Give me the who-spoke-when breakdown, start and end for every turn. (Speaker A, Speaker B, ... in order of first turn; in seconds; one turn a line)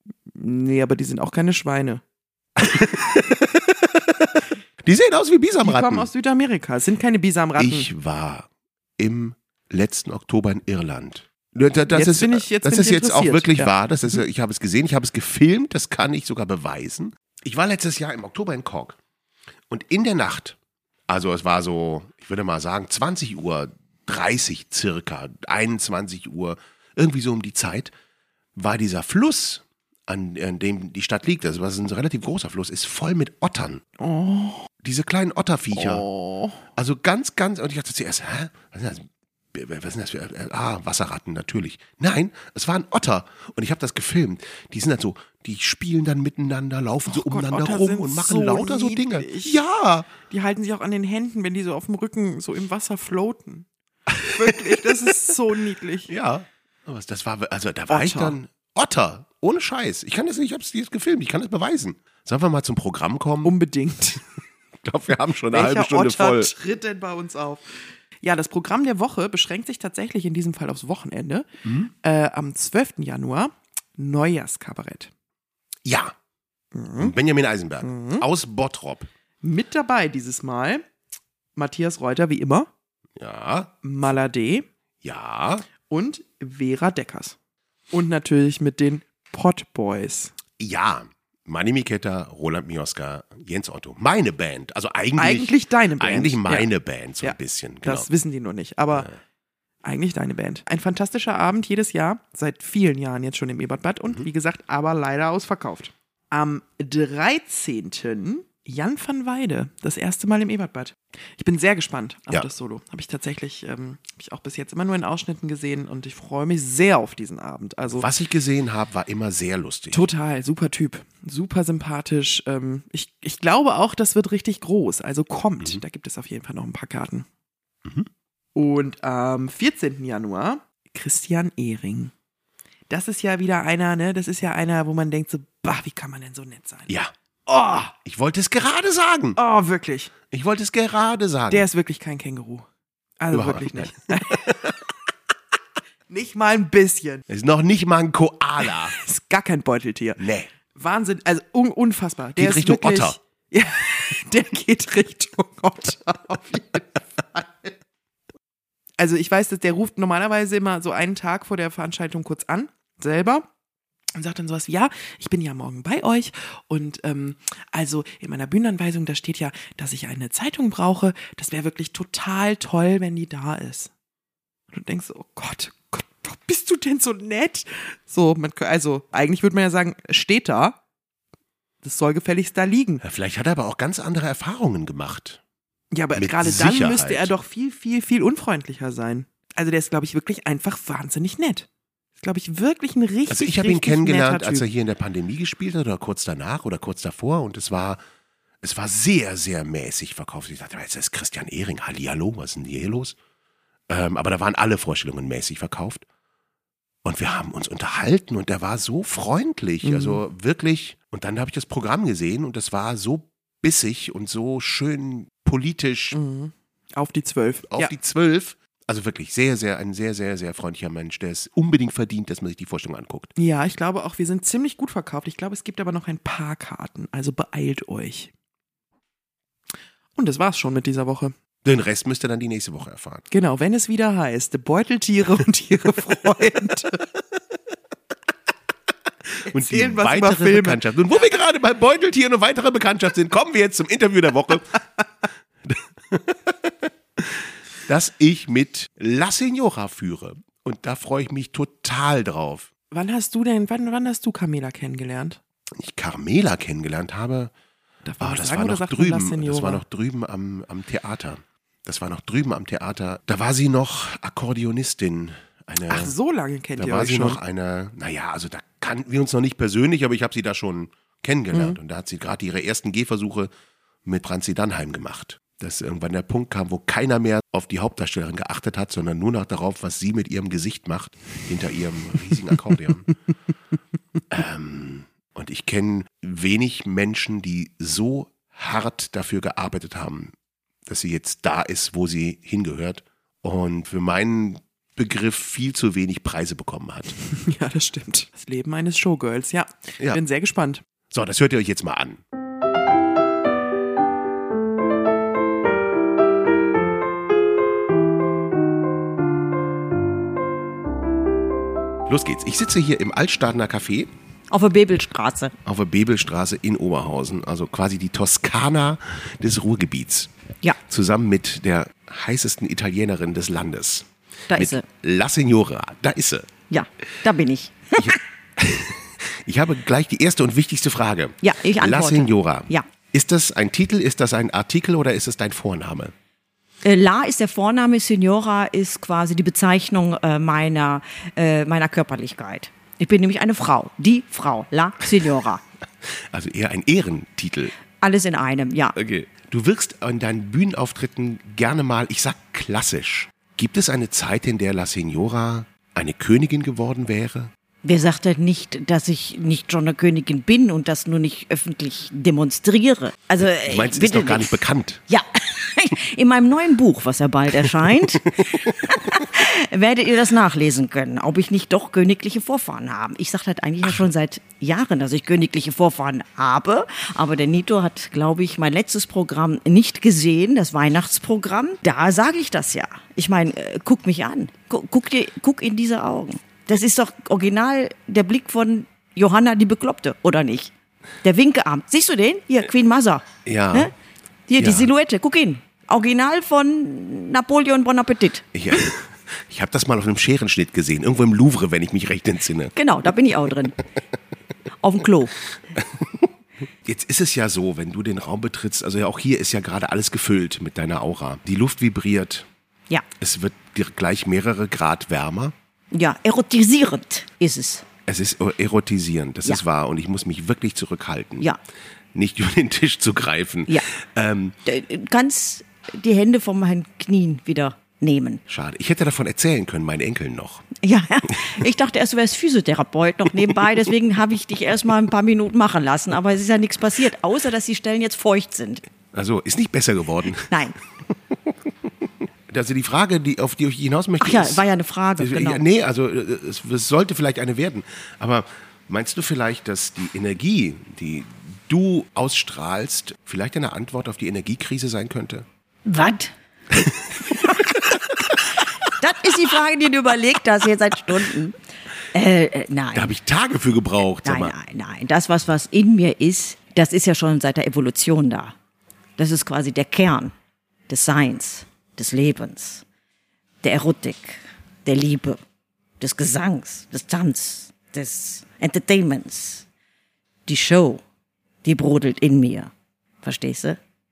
Speaker A: 0.3-2.0
Speaker B: 2.6-3.4
Speaker B: 4.8-6.1
Speaker A: 5.6-7.9
Speaker B: 7.6-19.0
Speaker A: 11.9-13.7
Speaker B: 19.7-20.6
Speaker B: 21.1-27.9
Speaker B: 28.6-33.8
Speaker A: 34.0-34.7
Speaker B: 34.8-36.1
Speaker A: 35.7-36.6
Speaker B: 36.7-50.1
Speaker A: 47.1-49.6
Speaker A: 50.3-53.7
Speaker B: 54.1-55.1
Speaker A: 54.2-56.1
Speaker B: 56.1-63.5
Speaker A: 57.9-58.4
Speaker A: 63.4-64.2
Speaker B: 64.8-66.5
Speaker A: 65.5-75.1
Speaker B: 71.6-71.9
Speaker B: 75.8-76.1
Speaker A: 76.7-77.1
Speaker B: 77.0-79.1
Speaker A: 77.8-78.2
Speaker A: 79.4-80.8
Speaker A: 81.5-82.7
Speaker B: 83.2-83.7
Speaker A: 83.8-84.7
Speaker B: 85.0-85.7
Speaker A: 85.9-87.3
Speaker A: 87.9-90.3
Speaker B: 90.6-98.1
Speaker A: 95.2-96.7
Speaker A: 97.2-99.1
Speaker A: 99.8-118.1
Speaker B: 117.9-120.1
Speaker A: 119.9-127.3
Speaker A: 128.5-132.1
Speaker A: 132.9-136.9
Speaker A: 137.5-137.9
Speaker B: 138.0-139.4
Speaker A: 139.3-140.1
Speaker B: 140.3-141.7
Speaker A: 141.5-142.7
Speaker A: 143.2-144.5
Speaker B: 143.3-144.7
Speaker A: 146.1-147.3
Speaker B: 147.3-148.9
Speaker A: 148.7-157.7
Speaker B: 150.2-150.5
Speaker B: 152.3-153.2
Speaker A: 159.0-163.5
Speaker A: 164.1-173.9
Speaker A: 174.7-180.8
Speaker A: 181.8-183.0
Speaker B: 183.0-185.4
Speaker A: 185.9-191.7
Speaker B: 186.1-187.3
Speaker A: 192.2-194.7
Speaker B: 193.3-198.0
Speaker B: 198.6-203.2
Speaker B: 203.9-206.0
Speaker B: 207.0-216.2
Speaker A: 209.8-210.2
Speaker A: 216.1-217.9
Speaker B: 217.7-223.3
Speaker A: 223.3-228.3
Speaker A: 230.2-231.3
Speaker B: 231.6-233.2
Speaker A: 233.3-237.1
Speaker A: 239.4-240.8
Speaker B: 239.4-244.8
Speaker B: 245.6-252.7
Speaker A: 252.9-255.4
Speaker B: 255.8-257.5
Speaker A: 258.0-259.8
Speaker B: 258.2-266.1
Speaker A: 265.9-267.4
Speaker B: 266.8-273.5
Speaker A: 271.5-271.8
Speaker B: 274.0-283.1
Speaker B: 284.3-290.3
Speaker B: 290.9-297.1
Speaker A: 297.2-300.8
Speaker B: 301.1-302.2
Speaker B: 312.1-314.1
Speaker C: 314.5-315.5
Speaker B: 315.6-320.3
Speaker B: 320.9-326.5
Speaker C: 324.5-324.8
Speaker C: 326.7-328.2
Speaker B: 328.0-336.1
Speaker C: 331.4-332.9
Speaker C: 336.8-345.6
Speaker B: 346.3-347.7
Speaker C: 348.0-348.9
Speaker B: 348.9-357.5
Speaker C: 357.8-364.6
Speaker B: 363.4-365.0
Speaker C: 365.1-390.7
Speaker B: 368.4-368.7
Speaker C: 391.2-393.9
Speaker B: 393.4-393.9
Speaker C: 394.5-398.4
Speaker B: 394.6-394.9
Speaker B: 398.5-402.7
Speaker C: 402.7-403.8
Speaker C: 404.8-405.4
Speaker B: 405.7-406.3
Speaker B: 406.8-412.5
Speaker B: 413.2-415.5
Speaker C: 415.9-417.9
Speaker B: 418.1-421.5
Speaker B: 422.1-424.6
Speaker C: 424.6-428.4
Speaker B: 428.5-430.7
Speaker C: 430.8-438.9
Speaker B: 439.1-440.6
Speaker C: 440.5-440.8
Speaker B: 442.5-444.6
Speaker C: 444.2-445.6
Speaker B: 445.2-455.4
Speaker C: 455.8-456.3
Speaker B: 456.7-457.4
Speaker C: 457.3-457.9
Speaker B: 458.1-458.4
Speaker C: 458.8-461.6
Speaker C: 462.1-463.1
Speaker B: 462.9-464.5
Speaker C: 464.2-468.5
Speaker C: 469.2-470.3
Speaker C: 470.9-472.8
Speaker C: 473.6-475.4
Speaker C: 476.0-479.6
Speaker C: 480.4-481.0
Speaker C: 481.6-482.7
Speaker C: 483.2-483.8